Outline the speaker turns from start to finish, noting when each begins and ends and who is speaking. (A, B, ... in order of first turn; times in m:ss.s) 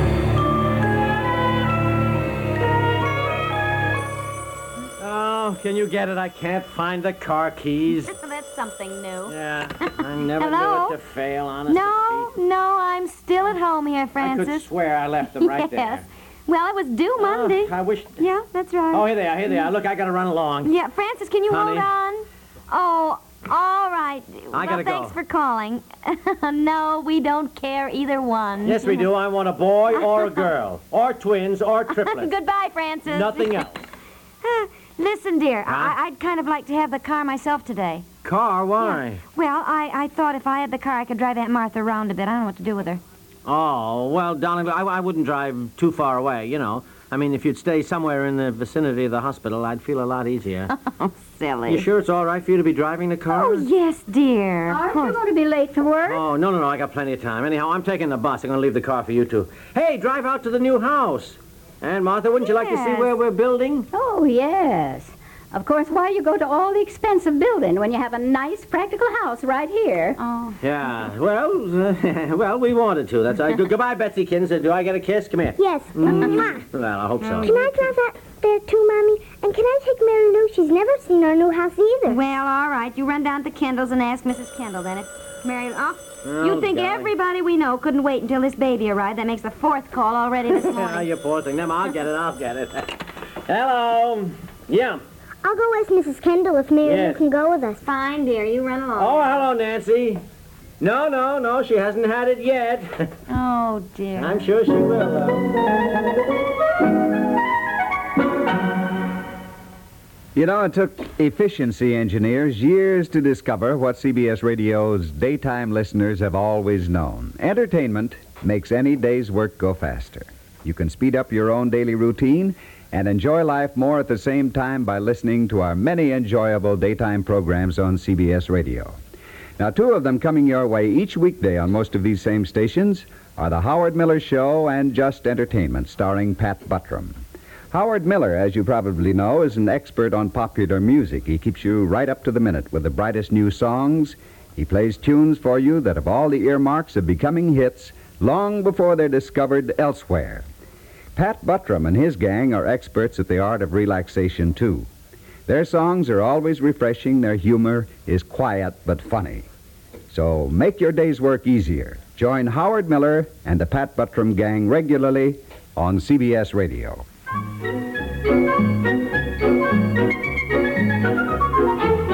0:05.0-0:08.1 A
0:08.0-0:11.0 B
0:09.3-0:12.3 A
0:11.7-0:14.6 B
0:14.2-0:16.0 A
0:15.3-0:19.1 B
0:17.2-0:18.2 A
0:18.9-0:20.7 A
0:20.6-0:29.1 B
0:21.5-0:21.9 A
0:24.5-0:25.2 A
0:28.6-0:32.3 A
0:31.9-0:33.6 B
0:33.1-0:33.8 A
0:34.4-0:38.1 B
0:35.7-0:35.9 A
0:38.2-0:39.2 A
0:38.8-0:43.0 B
0:43.4-0:50.7 A
0:50.7-0:51.8 B
0:51.7-0:53.7 A
0:53.3-0:55.2 B
0:54.7-0:56.2 C
0:56.1-1:03.9 A
1:02.4-1:03.2 B
1:03.9-1:10.2 C
1:10.2-1:10.6 B
1:10.6-1:17.5 A
1:15.6-1:16.6 D
1:16.1-1:16.5 B
1:17.2-1:17.9 B
1:17.4-1:22.3 D
1:22.1-1:31.1 B
1:26.2-1:27.1 A
1:30.5-1:35.0 A
1:35.4-1:37.8 D
1:36.8-1:37.2 A
1:37.8-1:39.4 B
1:39.0-1:40.2 A
1:40.8-1:43.1 A
1:43.3-1:44.4 B
1:44.2-1:45.5 A
1:50.4-2:09.0 E
2:09.6-2:17.2 E
2:17.7-2:30.5 E
2:31.2-2:34.9 E
2:35.5-2:39.5 E
2:40.1-2:47.0 E